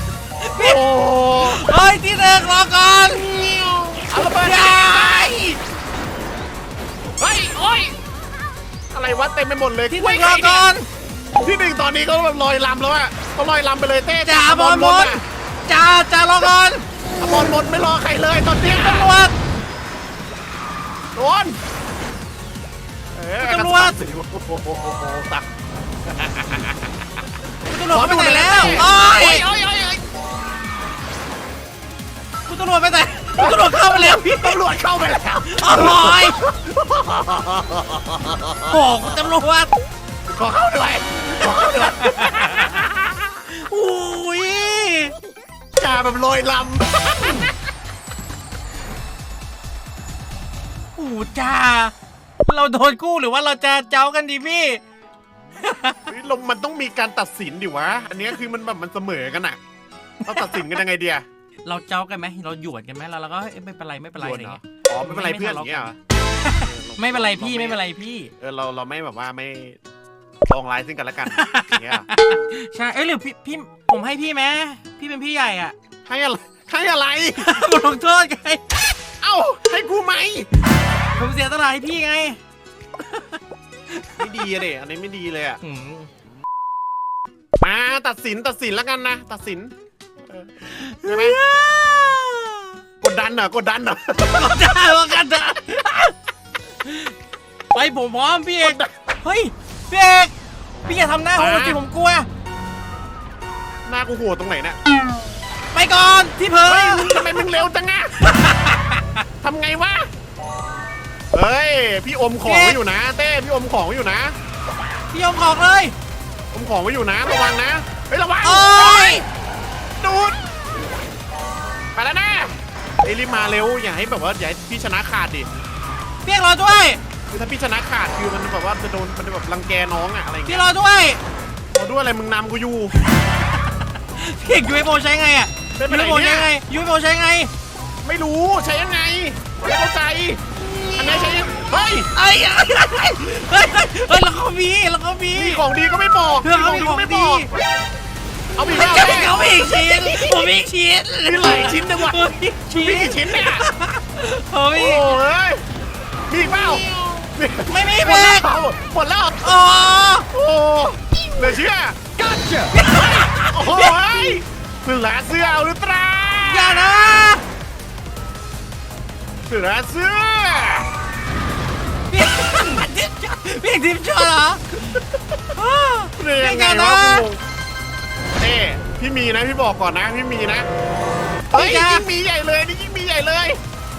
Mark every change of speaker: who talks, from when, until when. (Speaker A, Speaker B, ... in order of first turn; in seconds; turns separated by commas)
Speaker A: 0.4-0.8, Speaker B: 0.6-1.9, Speaker A: 1.4-3.3, Speaker B: 3.2-5.3, Speaker A: 4.1-5.6, Speaker B: 7.2-8.0, Speaker B: 8.9-10.7, Speaker A: 9.9-10.8, Speaker B: 11.4-15.2, Speaker A: 14.2-16.8, Speaker B: 17.2-19.1, Speaker A: 18.6-19.3, Speaker B: 21.2-21.6, Speaker B: 23.1-25.4, Speaker A: 23.4-24.0, Speaker B: 26.1-26.9, Speaker A: 27.7-29.4, Speaker B: 27.9-30.0, Speaker A: 32.5-34.6, Speaker B: 33.4-39.0, Speaker A: 35.4-36.4, Speaker A: 38.7-39.7, Speaker B: 40.3-43.3, Speaker A: 41.7-42.8, Speaker A: 43.5-45.1, Speaker B: 45.8-47.5, Speaker A: 51.0-51.9, Speaker A: 52.5-54.8, Speaker A: 55.6-56.0, Speaker B: 56.1-59.6, Speaker A: 60.2-60.7, Speaker B: 60.3-61.2, Speaker A: 61.6-68.3, Speaker B: 64.2-66.0, Speaker B: 66.5-67.8, Speaker B: 68.4-69.8, Speaker B: 70.5-72.1, Speaker A: 71.3-75.8, Speaker B: 76.1-77.6, Speaker A: 77.4-78.9, Speaker B: 79.2-80.5, Speaker A: 81.2-82.4, Speaker A: 83.0-83.4, Speaker A: 83.9-84.2, Speaker B: 84.2-85.6, Speaker A: 85.6-86.1, Speaker B: 87.6-89.7, Speaker B: 90.3-91.4, Speaker A: 90.7-92.8, Speaker B: 93.0-94.8, Speaker A: 94.3-96.1, Speaker A: 96.8-97.1, Speaker A: 97.7-100.3, Speaker B: 98.6-98.9, Speaker A: 100.9-102.3, Speaker B: 101.4-101.8, Speaker B: 103.9-104.8, Speaker A: 105.7-107.3, Speaker B: 106.6-108.2, Speaker A: 108.3-109.0, Speaker B: 109.4-110.1, Speaker B: 111.3-114.3, Speaker A: 112.4-112.8, Speaker A: 115.1-115.9, Speaker B: 116.5-119.2, Speaker A: 118.4-119.2, Speaker B: 120.0-120.4, Speaker B: 122.0-125.5, Speaker A: 126.2-127.0, Speaker B: 127.3-130.7, Speaker A: 130.5-131.2, Speaker B: 131.7-132.9, Speaker A: 133.2-137.5, Speaker B: 135.8-136.5, Speaker B: 138.0-140.4, Speaker B: 141.0-142.1, Speaker A: 142.1-145.6, Speaker B: 145.3-147.5, Speaker A: 146.4-147.5, Speaker B: 148.6-150.5, Speaker A: 148.6-155.2, Speaker B: 151.2-153.7, Speaker B: 154.7-155.6, Speaker B: 156.3-159.6, Speaker A: 157.7-158.5, Speaker A: 159.4-160.3, Speaker B: 160.3-162.0, Speaker A: 162.3-164.1, Speaker B: 162.9-167.3, Speaker A: 166.4-167.4, Speaker B: 169.5-170.9, Speaker A: 172.1-175.0, Speaker A: 175.5-177.2, Speaker B: 176.2-177.4, Speaker B: 178.4-180.7, Speaker A: 181.5-182.1, Speaker B: 181.5-183.6